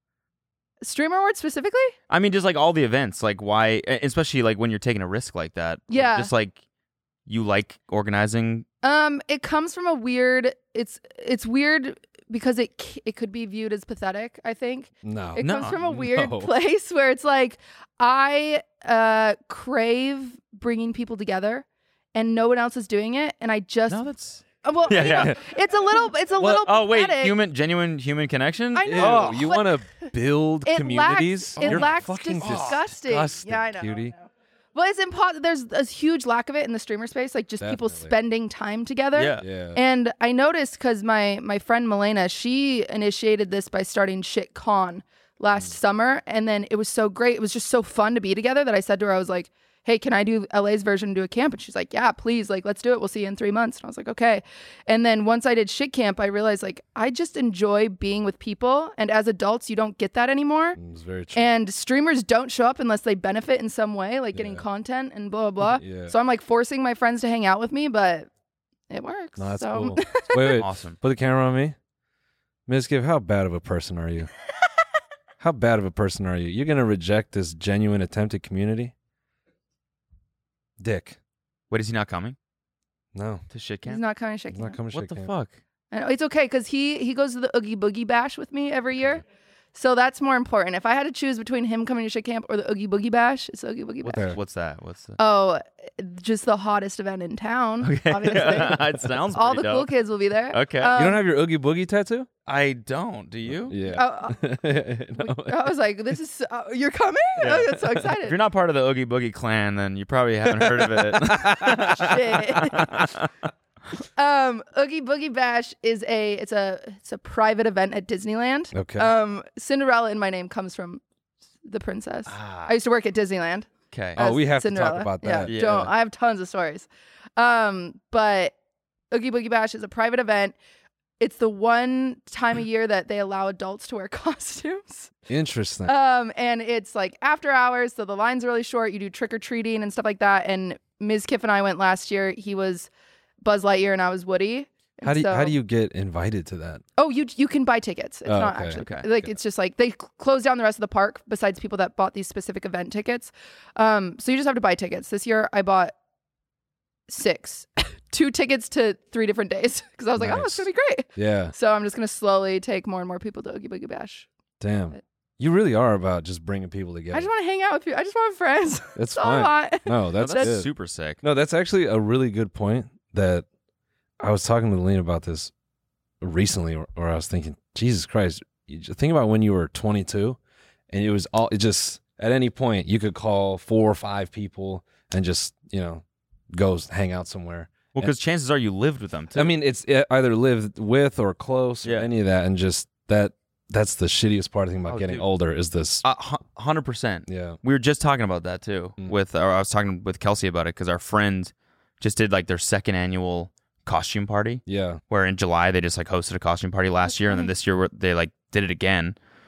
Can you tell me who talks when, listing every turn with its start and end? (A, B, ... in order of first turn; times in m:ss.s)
0:00.8-0:01.9 A
0:02.1-0:06.6 B
0:05.9-0:06.3 A
0:07.3-0:08.6 B
0:08.8-0:24.0 A
0:15.0-0:16.5 C
0:15.4-0:15.8 B
0:23.9-0:25.4 B
0:24.6-0:27.4 A
0:25.0-0:25.4 C
0:26.4-0:29.4 B
0:28.7-0:30.1 A
0:28.8-0:34.1 C
0:30.6-1:00.8 A
0:31.6-0:32.8 B
0:37.6-0:38.1 C
0:39.1-0:39.4 B
0:39.4-0:39.8 C
1:00.7-1:01.5 C
1:01.3-1:08.3 A
1:04.3-1:04.6 C
1:05.6-1:06.1 C
1:08.9-1:10.6 A
1:09.4-1:11.7 C
1:10.6-1:11.0 B
1:12.7-1:14.3 C
1:15.4-1:18.9 C
1:20.8-1:21.2 C
1:21.7-1:22.4 B
1:23.1-1:23.4 C
1:23.5-1:24.0 B
1:23.8-1:24.8 A
1:24.5-1:25.3 C
1:24.9-1:25.6 B
1:25.9-1:29.2 A
1:29.0-1:29.2 C
1:29.7-1:34.3 A
1:34.0-1:35.2 B
1:35.2-1:41.2 A
1:37.8-1:39.9 B
1:40.5-1:40.9 B
1:40.9-1:42.3 C
1:42.4-1:43.8 B
1:43.5-1:45.8 C
1:43.9-1:44.4 A
1:45.2-1:48.4 A
1:47.4-1:53.2 B
1:50.5-1:53.1 C
1:51.9-1:52.9 A
1:54.2-2:01.0 A
1:58.7-1:59.1 C
2:01.6-2:08.5 A
2:02.3-2:02.7 B
2:03.9-2:04.2 B
2:04.2-2:05.6 C
2:05.5-2:05.9 B
2:09.1-2:10.6 A
2:11.2-2:15.1 A
2:15.3-2:15.9 C
2:15.8-2:22.9 A
2:23.4-2:25.5 A
2:25.0-2:26.8 C
2:27.0-2:35.9 A
2:28.3-2:28.8 C
2:28.8-2:29.1 B
2:37.1-2:44.3 A
2:40.2-2:41.5 C
2:44.6-2:47.3 C
2:47.1-2:50.5 A
2:49.0-2:50.7 C
2:50.2-2:51.2 B
2:51.2-2:53.4 C
2:54.2-2:55.5 C
2:56.2-3:00.4 C
3:00.9-3:08.1 C
3:07.9-3:09.5 B
3:09.3-3:16.0 C
3:14.9-3:15.2 B
3:16.0-3:29.2 B
3:17.3-3:17.6 C
3:24.6-3:25.0 C
3:27.2-3:27.5 A